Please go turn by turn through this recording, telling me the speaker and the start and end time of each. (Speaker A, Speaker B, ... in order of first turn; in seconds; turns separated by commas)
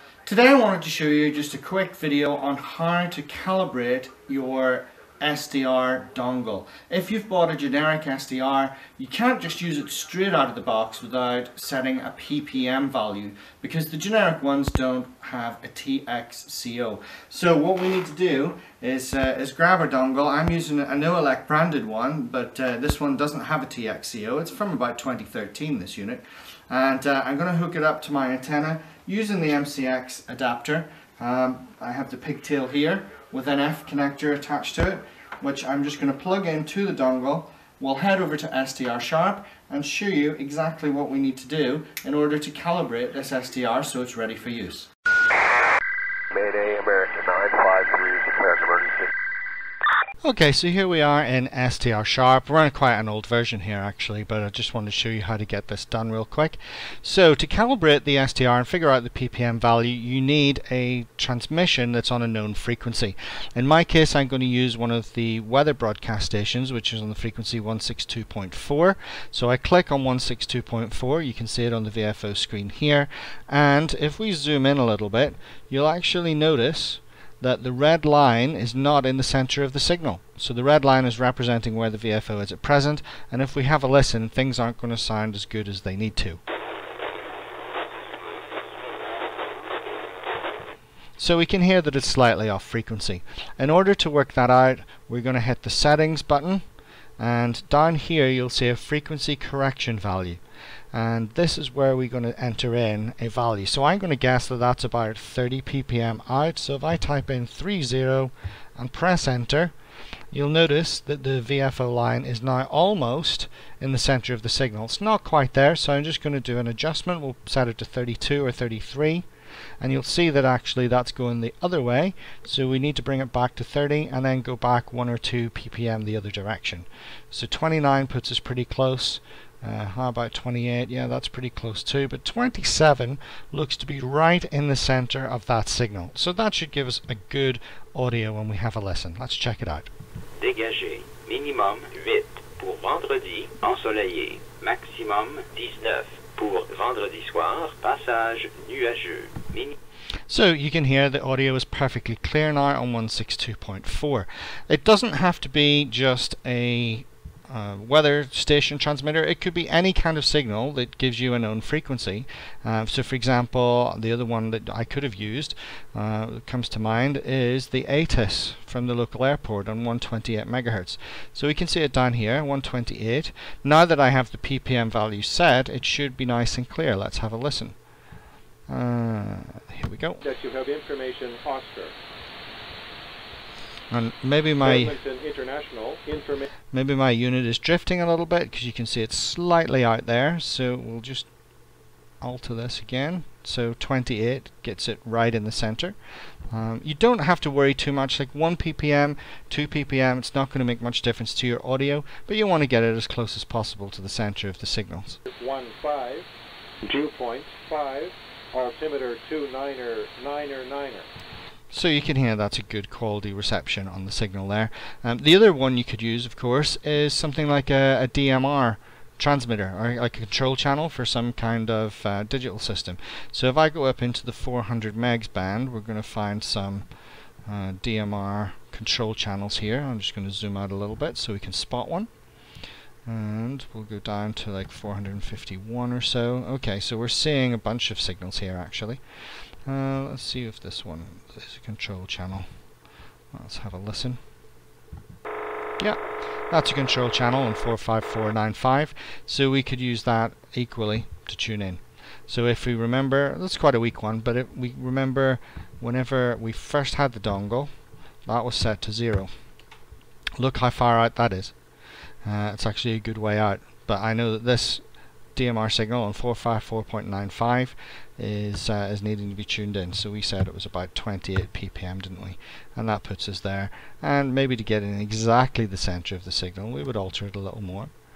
Speaker A: 0.3-44.9, Speaker B: 46.3-49.1, Speaker A: 50.2-86.4, Speaker A: 91.2-96.6, Speaker A: 97.2-100.4, Speaker A: 100.9-109.7, Speaker A: 110.3-119.3, Speaker A: 119.8-139.9, Speaker C: 140.4-149.8, Speaker A: 150.3-177.8, Speaker A: 178.7-180.2, Speaker D: 180.2-182.0, Speaker A: 183.9-184.9, Speaker D: 184.6-186.4, Speaker A: 186.7-191.3, Speaker A: 192.2-195.9, Speaker A: 196.5-205.2, Speaker D: 205.3-206.3, Speaker D: 206.8-211.1, Speaker A: 211.7-226.9, Speaker A: 227.5-232.1, Speaker A: 233.1-239.0, Speaker A: 239.7-242.5, Speaker A: 243.3-244.2, Speaker A: 245.8-257.7, Speaker A: 258.3-259.3, Speaker A: 260.4-261.5, Speaker A: 262.2-264.8, Speaker A: 265.4-277.9